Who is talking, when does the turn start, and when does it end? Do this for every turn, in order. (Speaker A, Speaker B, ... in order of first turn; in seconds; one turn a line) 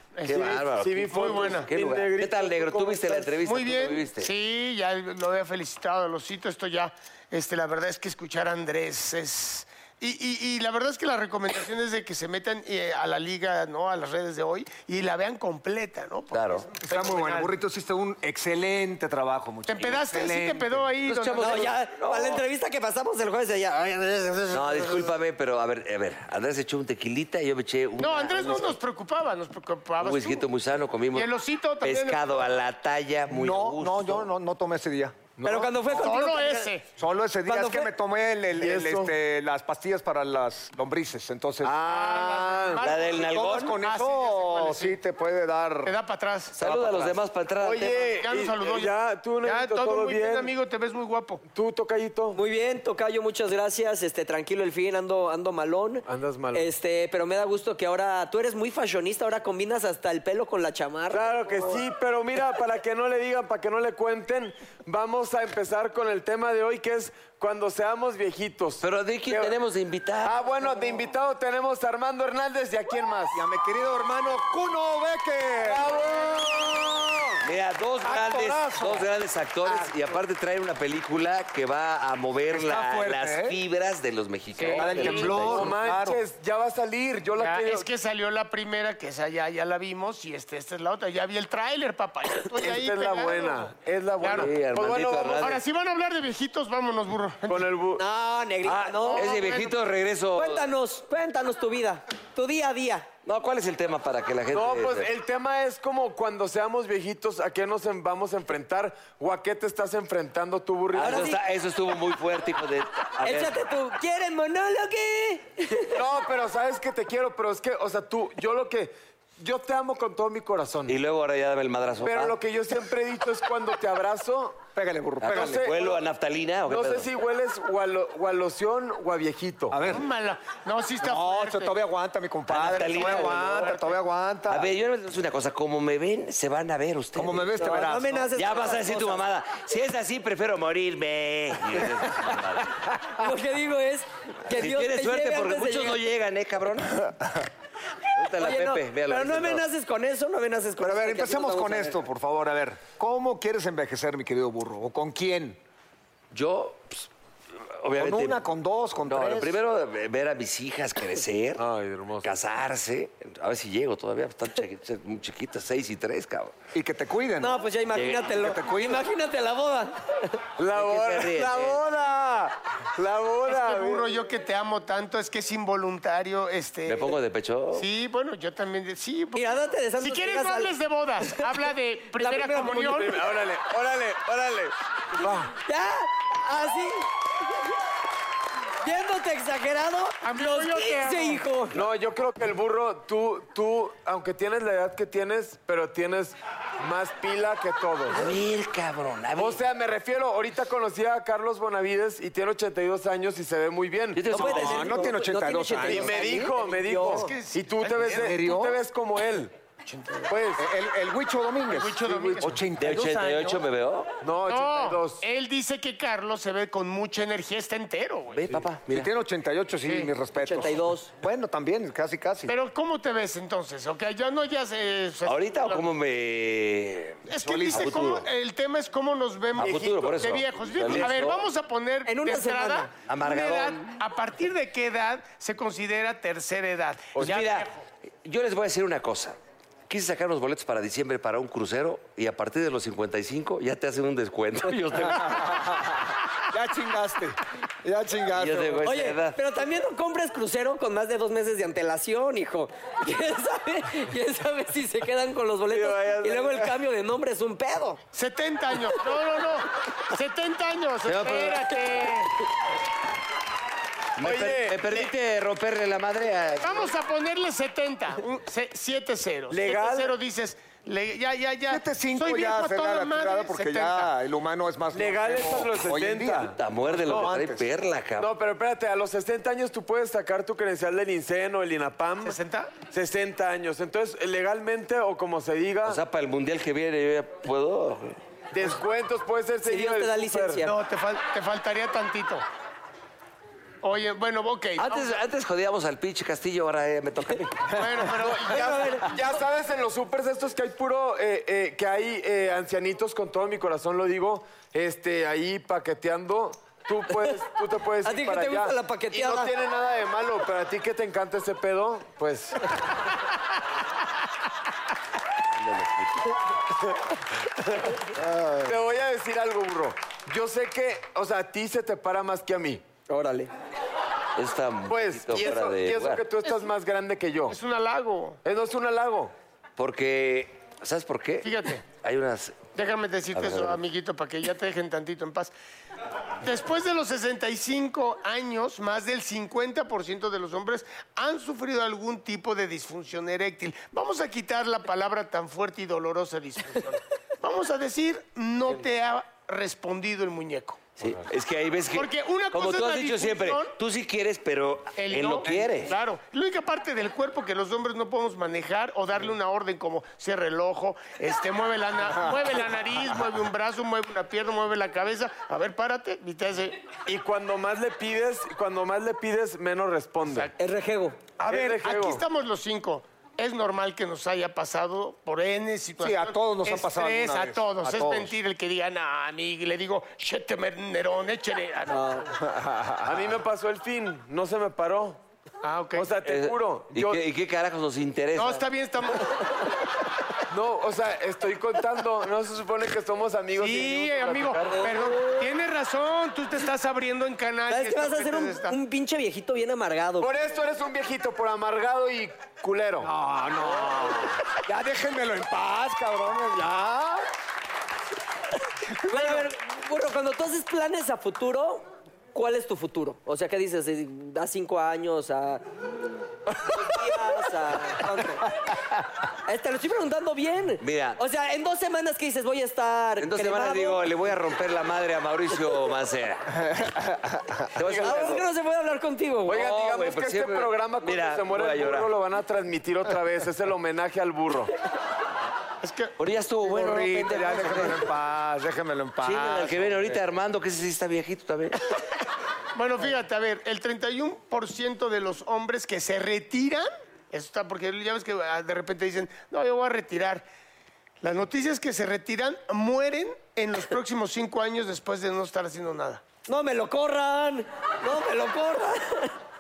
Speaker A: 0.1-1.7
Speaker B: 0.2-4.3
Speaker C: 0.7-3.3
Speaker A: 3.4-17.5
Speaker B: 16.3-16.7
Speaker D: 16.8-20.9
Speaker A: 19.7-21.7
Speaker B: 21.0-22.4
Speaker E: 21.4-25.1
Speaker B: 24.5-28.8
Speaker A: 28.0-30.4
Speaker B: 30.0-31.3
Speaker A: 31.1-32.2
Speaker B: 31.8-34.3
Speaker D: 33.3-35.4
Speaker E: 35.4-36.7
Speaker A: 36.0-36.8
Speaker D: 37.0-41.8
Speaker E: 37.5-37.9
Speaker C: 38.5-39.1
Speaker C: 41.6-42.9
Speaker A: 41.8-45.0
Speaker B: 42.1-43.8
Speaker D: 43.1-45.9
Speaker A: 45.8-46.6
Speaker B: 46.5-48.2
Speaker C: 46.6-50.5
Speaker A: 48.2-51.4
Speaker C: 51.5-52.4
Speaker E: 52.3-61.8
Speaker C: 56.0-56.7
Speaker C: 61.1-69.5
Speaker B: 68.8-70.4
Speaker C: 70.2-73.4
Speaker D: 73.3-75.9
Speaker C: 75.6-77.1
Speaker B: 77.4-85.7
Speaker D: 78.0-79.1
Speaker D: 79.6-79.9
Speaker D: 82.5-83.6
Speaker A: 84.6-85.5
Speaker D: 84.7-86.2
Speaker C: 85.1-87.9
Speaker A: 87.4-94.5
Speaker C: 92.6-95.6
Speaker B: 94.3-95.6
Speaker A: 95.4-97.8
Speaker C: 97.5-98.0
Speaker E: 98.0-99.4
Speaker B: 98.6-100.6
Speaker A: 99.0-99.7
Speaker E: 100.3-103.1
Speaker B: 103.2-105.1
Speaker C: 104.5-111.3
Speaker B: 110.9-113.6
Speaker E: 111.0-111.4
Speaker E: 113.2-116.0
Speaker C: 115.9-120.9
Speaker B: 120.9-122.3
Speaker C: 122.0-124.7
Speaker D: 124.7-125.6
Speaker B: 125.2-127.1
Speaker C: 125.3-126.0
Speaker C: 126.7-129.8
Speaker D: 129.7-130.1
Speaker A: 129.9-131.8
Speaker D: 131.0-134.7
Speaker B: 132.5-133.7
Speaker A: 132.6-133.8
Speaker B: 134.5-137.8
Speaker D: 137.1-138.3
Speaker E: 137.6-139.2
Speaker B: 138.3-142.8
Speaker E: 143.1-146.0
Speaker B: 144.5-147.0
Speaker B: 148.2-149.6
Speaker E: 148.4-152.0
Speaker D: 150.8-155.6
Speaker B: 156.3-157.1
Speaker B: 157.8-158.4
Speaker D: 157.9-159.6
Speaker B: 159.0-161.6
Speaker C: 161.6-162.3
Speaker B: 162.2-166.5
Speaker D: 166.7-167.6
Speaker E: 167.4-170.2
Speaker B: 167.9-168.3
Speaker D: 168.3-169.1
Speaker C: 170.6-174.1
Speaker B: 170.7-171.8
Speaker A: 173.5-177.1
Speaker B: 176.8-177.8
Speaker A: 177.7-183.2
Speaker E: 179.3-180.7
Speaker E: 182.2-182.9
Speaker C: 182.8-185.5
Speaker E: 185.2-187.1
Speaker E: 188.8-191.8
Speaker A: 190.2-191.4
Speaker C: 191.7-198.3
Speaker B: 198.1-199.6
Speaker C: 199.4-204.5
Speaker B: 204.1-205.1
Speaker E: 204.3-207.3
Speaker D: 204.4-206.6
Speaker C: 205.8-209.5
Speaker A: 207.0-208.4
Speaker D: 208.0-208.8
Speaker A: 209.8-210.3
Speaker C: 210.3-210.6
Speaker D: 210.6-213.6
Speaker A: 211.7-212.6
Speaker B: 212.8-214.1
Speaker C: 214.2-215.2
Speaker A: 214.5-218.4
Speaker B: 218.3-219.1
Speaker D: 218.9-222.5
Speaker E: 220.3-221.1
Speaker A: 222.5-225.8
Speaker B: 225.2-228.3
Speaker A: 227.3-237.8
Speaker D: 227.4-228.1
Speaker C: 229.6-230.0
Speaker B: 229.6-231.5
Speaker C: 230.9-231.3
Speaker E: 232.1-232.9
Speaker B: 233.1-234.0
Speaker C: 237.1-237.4
Speaker B: 237.2-237.7
Speaker B: 238.2-239.3
Speaker B: 239.9-245.8
Speaker D: 245.0-248.8
Speaker B: 248.3-249.4
Speaker E: 248.8-258.0
Speaker C: 255.7-256.7
Speaker A: 258.1-262.3
Speaker B: 261.1-262.1
Speaker B: 264.2-266.9
Speaker C: 264.2-265.1
Speaker A: 266.6-274.1
Speaker C: 269.5-270.1
Speaker D: 271.7-277.6
Speaker C: 274.9-277.3
Speaker B: 276.6-278.3
Speaker C: 278.2-282.4
Speaker A: 282.2-282.7
Speaker C: 282.9-286.0
Speaker B: 285.8-288.2
Speaker C: 288.5-290.6
Speaker E: 289.6-290.7
Speaker A: 290.6-292.4
Speaker A: 293.8-295.1
Speaker B: 294.8-297.6
Speaker A: 297.7-298.8
Speaker C: 298.2-312.6
Speaker E: 298.4-299.3
Speaker E: 307.1-307.4
Speaker E: 308.0-309.5
Speaker B: 315.6-316.3
Speaker C: 318.5-322.9
Speaker E: 323.1-323.5
Speaker B: 324.4-326.2
Speaker C: 324.9-327.6
Speaker A: 327.5-328.4
Speaker C: 328.4-329.3
Speaker B: 329.8-332.7
Speaker A: 331.4-331.8
Speaker A: 332.7-335.5
Speaker B: 333.3-333.8
Speaker A: 336.4-350.8
Speaker B: 351.0-355.9
Speaker A: 351.9-353.7
Speaker A: 355.0-366.8
Speaker C: 367.1-370.5
Speaker A: 370.2-370.5
Speaker E: 370.6-371.3
Speaker A: 371.4-382.3
Speaker C: 371.5-372.2
Speaker D: 376.0-378.3
Speaker E: 381.9-382.2
Speaker D: 382.6-383.0
Speaker C: 383.0-385.2
Speaker A: 385.6-386.1
Speaker C: 385.9-387.2
Speaker B: 386.2-388.6
Speaker A: 388.4-389.3
Speaker C: 390.5-394.9
Speaker A: 393.6-398.8
Speaker E: 394.7-395.5
Speaker E: 397.7-400.3
Speaker C: 400.2-403.1
Speaker D: 403.0-407.2
Speaker E: 409.1-415.6
Speaker D: 409.1-409.4
Speaker E: 416.6-418.5
Speaker E: 419.4-424.0
Speaker B: 420.8-421.2
Speaker B: 423.2-426.6
Speaker B: 427.7-428.4
Speaker E: 427.9-429.5
Speaker B: 429.4-432.1
Speaker C: 429.5-434.7
Speaker A: 435.8-436.1
Speaker B: 436.2-438.1
Speaker D: 436.6-440.1
Speaker B: 439.2-441.8
Speaker A: 442.7-450.4
Speaker A: 451.2-456.2
Speaker E: 456.5-459.3